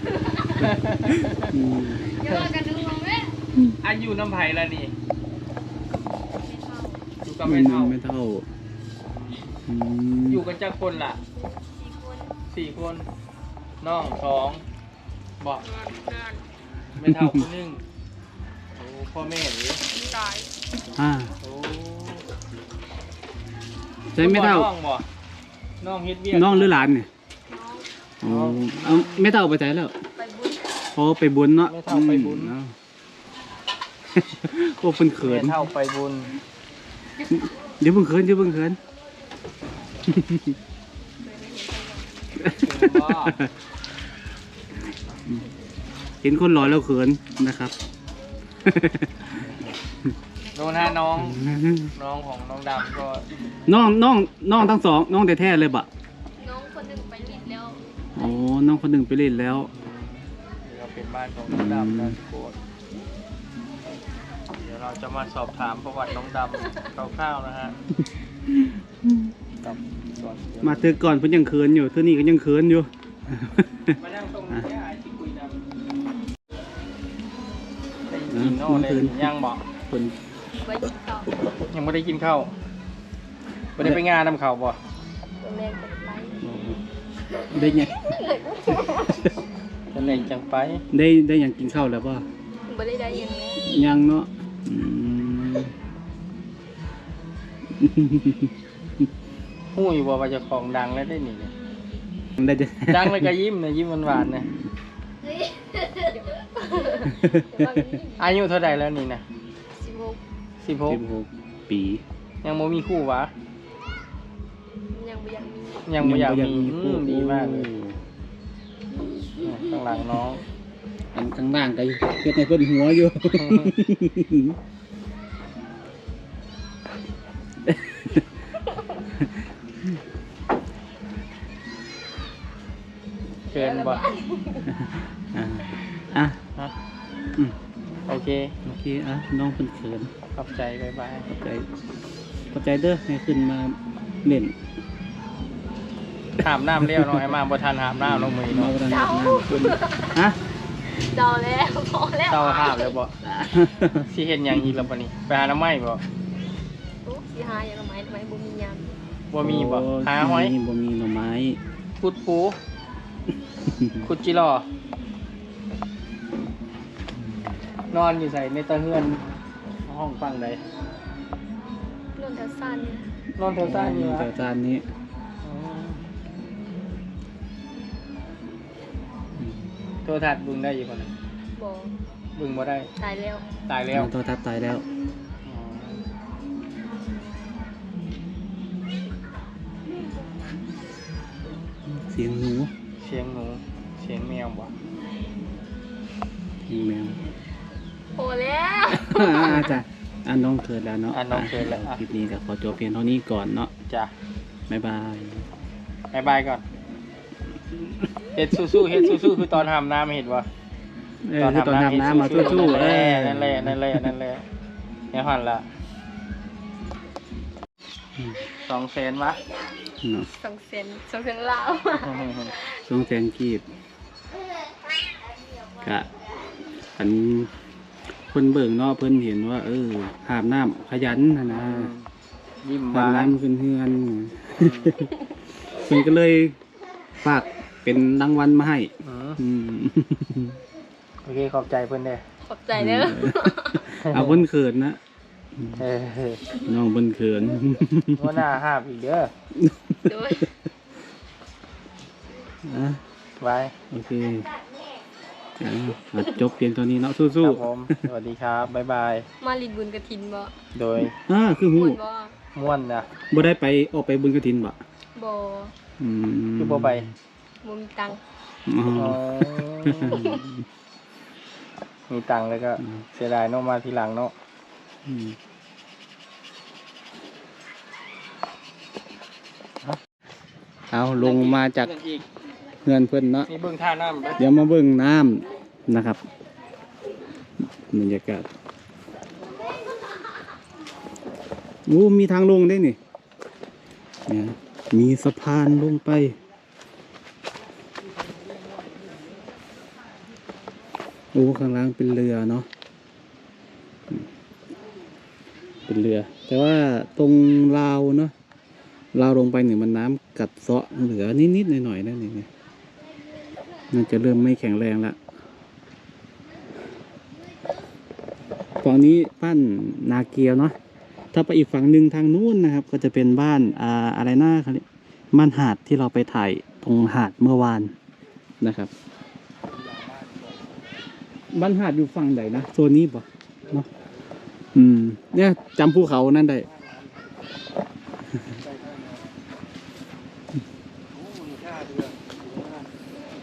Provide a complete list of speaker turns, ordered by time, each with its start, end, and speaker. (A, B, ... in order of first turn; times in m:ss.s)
0:00.1-0:00.6 A
0:00.6-0:01.5 B
0:01.1-0:02.1 C
0:02.2-0:03.4 A
0:02.2-0:02.5 B
0:03.8-0:04.9 B
0:06.4-0:07.0 A
0:07.2-0:08.0 B
0:07.4-0:08.5 C
0:09.1-0:09.6 B
0:09.7-0:10.5 C
0:10.3-0:11.2 B
0:11.7-0:12.4 A
0:12.5-0:13.1 B
0:13.8-0:14.6 B
0:15.4-0:15.7 B
0:15.7-0:16.4 A
0:17.0-0:17.8 B
0:17.1-0:17.4 C
0:18.7-0:19.8 B
0:19.9-0:20.5 A
0:21.0-0:21.3 C
0:21.4-0:22.2 B
0:24.1-0:24.7 C
0:24.2-0:25.0 B
0:25.8-0:26.8 B
0:26.3-0:27.1 C
0:27.5-0:27.9 A
0:28.2-0:29.9 C
0:28.2-0:29.2 B
0:30.2-0:30.7 A
0:31.0-0:32.7 C
0:31.7-0:32.6 B
0:34.2-0:35.6 C
0:35.2-0:36.3 B
0:37.3-0:38.8 C
0:40.0-0:40.6 C
0:41.2-0:42.1 A
0:42.4-0:43.5 C
0:42.6-0:43.4 B
0:46.2-0:47.7 C
0:48.6-0:49.5 C
0:50.6-0:51.4 B
0:51.2-0:51.9 C
0:52.0-0:53.3 B
0:53.7-0:55.9 C
0:56.4-0:58.3 A
0:58.2-0:59.7 C
0:59.7-1:02.6 B
1:01.5-1:02.2 C
1:04.5-1:07.8 B
1:08.5-1:09.3 C
1:09.6-1:11.0 B
1:10.6-1:14.0 C
1:14.0-1:15.6 B
1:18.1-1:19.6 B
1:18.3-1:19.3 C
1:20.6-1:21.3 A
1:21.7-1:22.5 B
1:23.8-1:24.8 B
1:25.4-1:26.4 A
1:26.4-1:26.8 C
1:27.5-1:28.0 C
1:27.8-1:29.3 A
1:29.9-1:30.8 B
1:30.9-1:32.2 C
1:32.7-1:33.6 A
1:33.6-1:35.7 C
1:37.8-1:39.1 C
1:39.7-1:41.5 B
1:42.4-1:43.3 C
1:42.9-1:44.5 B
1:44.1-1:44.7 C
1:45.7-1:48.3 A
1:47.2-1:47.8 C
1:48.2-1:49.2 B
1:49.8-1:50.2 A
1:50.6-1:51.0 B
1:50.9-1:52.0 C
1:52.4-1:53.3 B
1:54.9-1:55.9 A
1:55.9-1:57.7 B
1:56.0-1:58.0 C
1:59.4-2:00.4 B
2:01.1-2:04.6 C
2:03.3-2:03.7 B
2:07.6-2:08.3 C
2:09.2-2:10.0 C
2:13.5-2:14.7 A
2:13.5-2:14.0 B
2:14.7-2:16.4 C
2:18.1-2:18.6 B
2:18.7-2:20.1 C
2:20.4-2:21.3 B
2:21.3-2:21.7 C
2:22.5-2:24.6 C
2:26.4-2:28.8 B
2:28.0-2:30.4 C
2:28.8-2:30.2 A
2:31.0-2:33.0 A
2:32.3-2:33.1 B
2:33.2-2:34.8 C
2:34.1-2:36.0 B
2:37.0-2:39.0 A
2:39.3-2:40.5 B
2:39.4-2:41.6 C
2:42.0-2:42.6 B
2:43.6-2:44.1 C
2:44.0-2:44.7 B
2:47.2-2:47.5 C
2:47.9-2:49.2 B
2:49.9-2:50.6 B
2:52.2-2:53.1 A
2:53.4-2:54.3 B
2:53.6-2:54.8 C
2:55.4-2:56.0 B
2:59.4-2:59.7 C
3:00.0-3:01.1 B
3:01.6-3:01.9 A
3:02.4-3:02.9 B
3:03.0-3:03.5 A
3:03.7-3:04.1 B
3:03.9-3:04.8 C
3:05.4-3:06.0 B
3:11.9-3:12.7 C
3:13.0-3:14.7 B
3:16.7-3:17.2 C
3:18.2-3:19.7 A
3:18.9-3:23.7 C
3:21.1-3:22.0 B
3:24.7-3:25.5 C
3:26.1-3:26.6 B
3:28.4-3:30.5 B
3:31.2-3:34.1 C
3:31.4-3:34.4 B
3:35.1-3:35.7 B
3:38.6-3:39.4 B
3:40.0-3:40.3 C
3:40.4-3:42.3 A
3:42.0-3:42.6 B
3:42.7-3:43.6 C
3:45.8-3:46.1 C
3:47.0-3:47.5 C
3:48.3-3:51.9 C
3:51.5-3:52.1 B
3:52.6-3:53.4 B
3:52.9-3:55.1 C
3:54.6-3:54.9 B
3:55.8-3:56.6 C
3:57.2-4:00.6 C
3:59.0-3:59.4 B
4:01.2-4:02.2 B
4:02.5-4:03.9 A
4:02.8-4:05.0 C
4:04.0-4:04.4 B
4:05.6-4:05.8 C
4:05.8-4:06.4 B
4:06.6-4:08.4 C
4:08.2-4:09.3 B
4:09.6-4:10.4 C
4:10.1-4:10.5 A
4:12.7-4:13.0 C
4:13.4-4:13.7 B
4:13.9-4:14.5 C
4:15.6-4:18.0 C
4:17.4-4:19.3 B
4:19.4-4:20.5 A
4:20.8-4:21.1 B
4:21.1-4:22.0 C
4:21.8-4:22.3 A
4:22.6-4:23.1 B
4:23.3-4:24.8 C
4:25.2-4:25.7 A
4:26.0-4:27.1 C
4:26.6-4:27.1 B
4:27.6-4:28.2 A
4:28.7-4:30.5 C
4:28.9-4:30.4 B
4:30.1-4:30.4 A
4:32.1-4:34.3 B
4:35.1-4:35.4 C
4:40.9-4:41.9 C
4:41.2-4:42.2 B
4:42.8-4:43.5 C
4:43.5-4:44.4 B
4:44.4-4:46.2 C
4:47.6-4:48.5 C
4:51.9-4:53.0 C
4:54.3-4:56.4 C
5:01.3-5:02.7 C
5:05.9-5:08.3 C
5:09.1-5:12.5 C
5:13.9-5:15.2 C
5:18.8-5:20.8 C
5:21.3-5:27.9 C
5:28.6-5:28.9 C
5:29.6-5:31.0 B
5:31.5-5:33.9 C
5:34.8-5:36.7 C
5:36.6-5:37.5 B
5:38.5-5:39.3 B
5:41.1-5:42.9 B